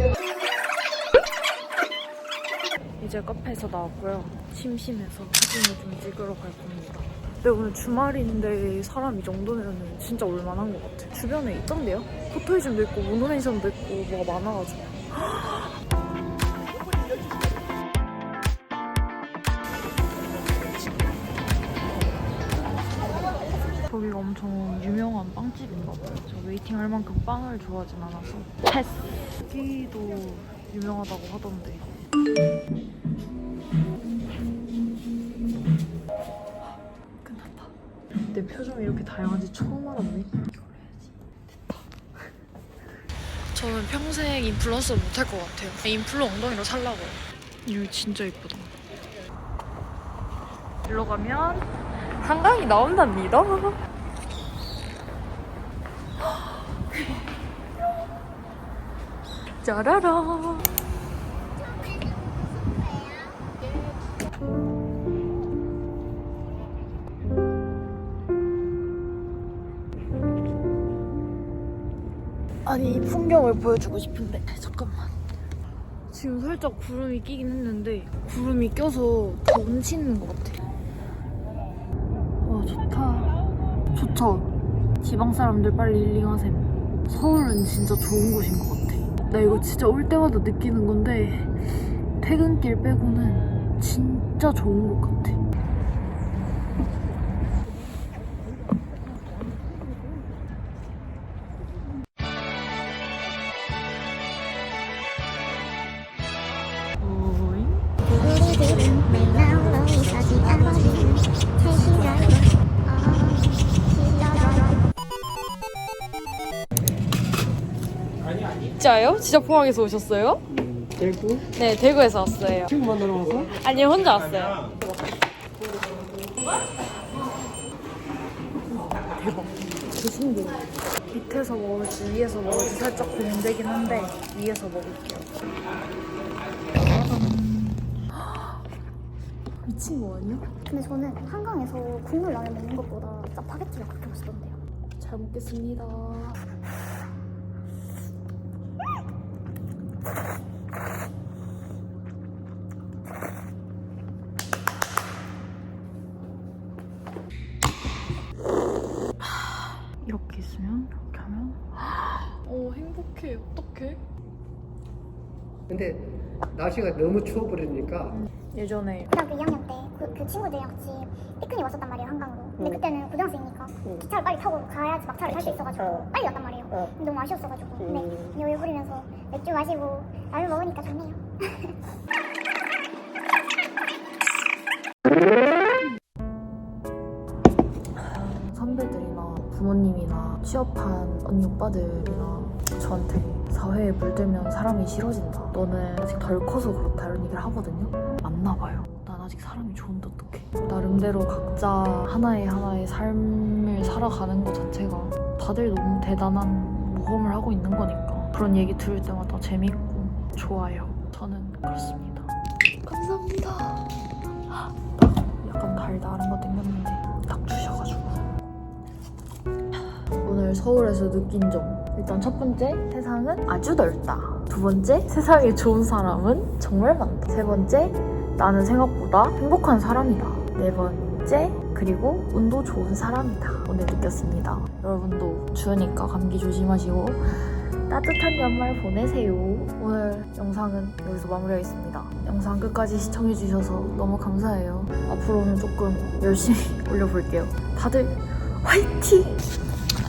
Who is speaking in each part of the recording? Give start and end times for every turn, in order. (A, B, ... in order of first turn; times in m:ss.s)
0:03.0-0:15.7 A
0:23.8-0:32.0 A
0:36.6-0:37.7 A
0:38.3-0:41.1 A
0:43.5-0:48.7 A
0:50.8-0:53.8 A
0:59.6-1:00.8 A
1:12.6-1:15.2 A
1:16.1-1:20.6 A
1:22.4-1:23.3 A
1:23.9-1:24.5 A
1:25.0-1:35.4 A
1:47.0-1:47.9 A
1:48.1-1:54.8 B
1:58.7-2:00.4 A
2:00.8-2:01.3 C
2:01.5-2:02.8 A
2:02.9-2:03.4 C
2:03.4-2:05.0 A
2:08.7-2:15.3 A
2:16.8-2:18.6 A
2:19.6-2:20.5 A
2:20.7-2:24.6 B
2:25.0-2:26.4 A
2:39.2-2:44.0 A
2:45.7-2:48.1 C
2:48.1-2:49.1 A
2:49.1-3:01.8 B
3:08.0-3:32.3 A
3:32.8-3:33.9 A
3:34.5-3:38.3 A
3:40.2-4:09.4 A